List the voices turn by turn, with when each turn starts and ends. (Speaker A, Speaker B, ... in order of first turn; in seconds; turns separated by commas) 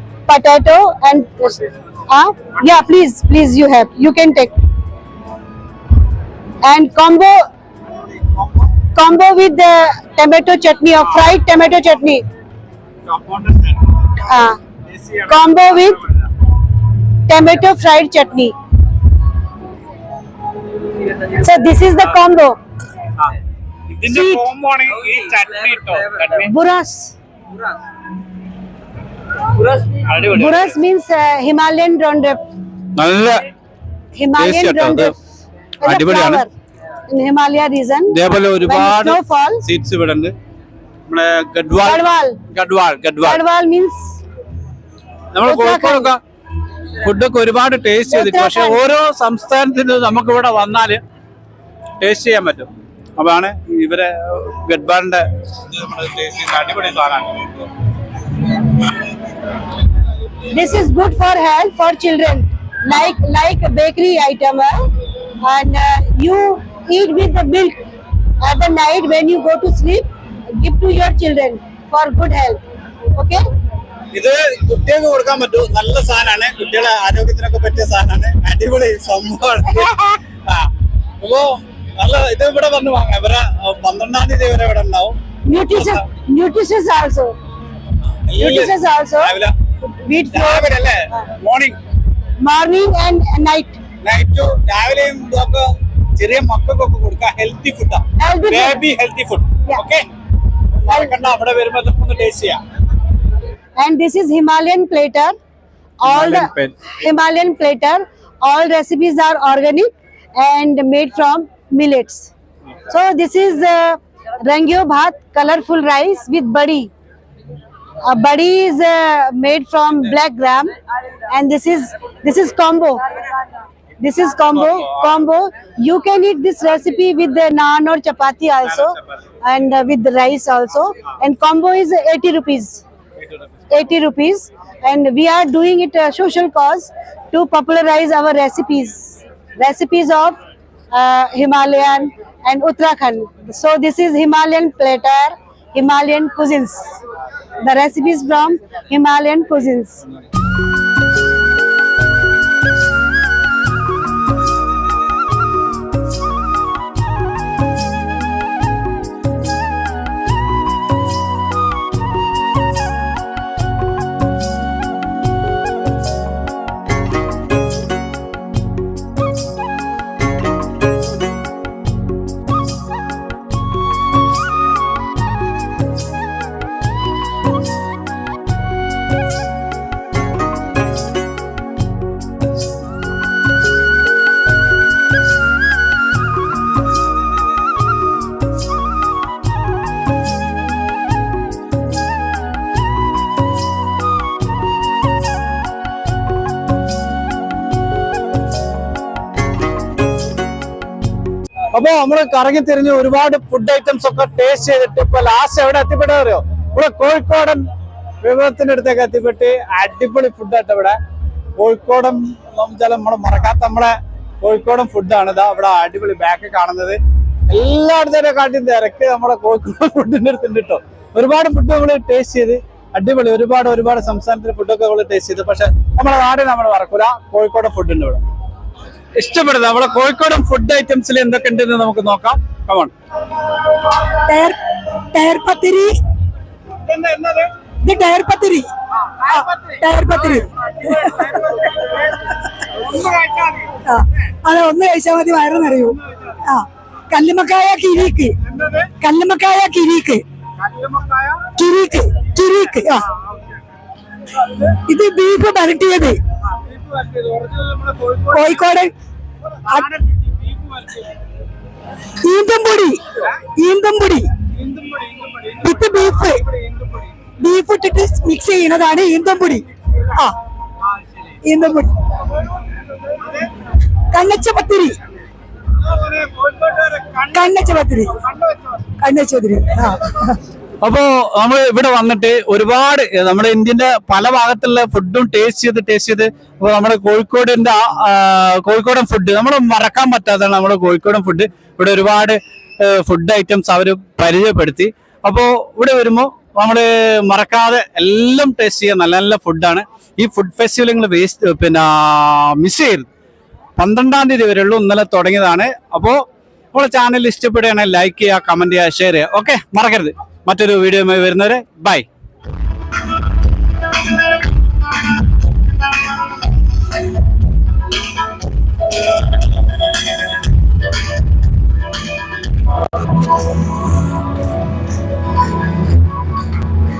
Speaker A: 0.3-4.5, Speaker A: 6.6-7.5, Speaker B: 8.1-8.7, Speaker A: 8.9-12.2, Speaker B: 13.1-14.2, Speaker A: 14.2-14.6, Speaker B: 14.9-16.2, Speaker A: 15.3-16.0, Speaker A: 17.3-18.6, Speaker A: 21.2-22.6, Speaker B: 23.9-26.5, Speaker A: 24.1-24.4, Speaker A: 26.4-27.1, Speaker A: 30.2-32.4, Speaker B: 33.0-33.5, Speaker A: 34.1-35.1, Speaker B: 34.4-35.1, Speaker A: 35.8-36.5, Speaker B: 35.8-36.5, Speaker A: 37.1-39.6, Speaker B: 38.1-40.3, Speaker B: 41.1-43.4, Speaker A: 41.8-42.4, Speaker A: 43.2-44.2, Speaker B: 45.3-46.2, Speaker A: 45.5-46.1, Speaker B: 47.0-51.0, Speaker A: 48.1-48.8, Speaker B: 52.0-57.6, Speaker A: 60.5-64.8, Speaker A: 65.4-67.8, Speaker A: 68.4-72.6, Speaker A: 73.2-73.4, Speaker B: 74.1-79.9, Speaker A: 79.7-80.2, Speaker B: 80.5-80.7, Speaker B: 81.2-86.0, Speaker A: 85.5-87.4, Speaker B: 88.3-89.5, Speaker A: 88.4-90.7, Speaker B: 90.3-91.8, Speaker A: 92.4-93.8, Speaker B: 94.0-100.1, Speaker A: 98.2-98.8, Speaker B: 100.8-102.6, Speaker A: 103.8-105.4, Speaker A: 106.0-112.3, Speaker B: 106.1-106.7, Speaker A: 112.9-116.9, Speaker A: 118.0-120.7, Speaker A: 121.3-123.0, Speaker A: 124.0-132.8, Speaker B: 124.8-125.1, Speaker A: 133.7-140.4, Speaker A: 140.9-147.0, Speaker A: 147.6-150.1, Speaker B: 201.7-207.7, Speaker B: 208.2-211.0, Speaker B: 211.6-228.2, Speaker B: 229.2-232.9, Speaker C: 234.1-236.0, Speaker B: 236.8-237.5, Speaker C: 237.8-238.7, Speaker B: 239.1-243.8, Speaker C: 239.2-241.3, Speaker C: 243.8-250.2, Speaker B: 248.5-248.9, Speaker B: 250.6-251.6, Speaker C: 251.6-253.1, Speaker B: 253.1-253.5, Speaker C: 254.6-256.2, Speaker B: 256.5-258.6, Speaker C: 258.3-258.9, Speaker B: 259.6-261.2, Speaker C: 262.2-264.3, Speaker B: 264.5-265.6, Speaker C: 265.6-266.4, Speaker B: 266.4-267.1, Speaker C: 267.4-270.4, Speaker C: 271.4-271.9, Speaker C: 274.1-275.0, Speaker B: 275.9-277.3, Speaker C: 277.2-278.3, Speaker C: 278.8-280.4, Speaker B: 280.8-303.1, Speaker B: 303.8-306.2, Speaker B: 306.7-312.1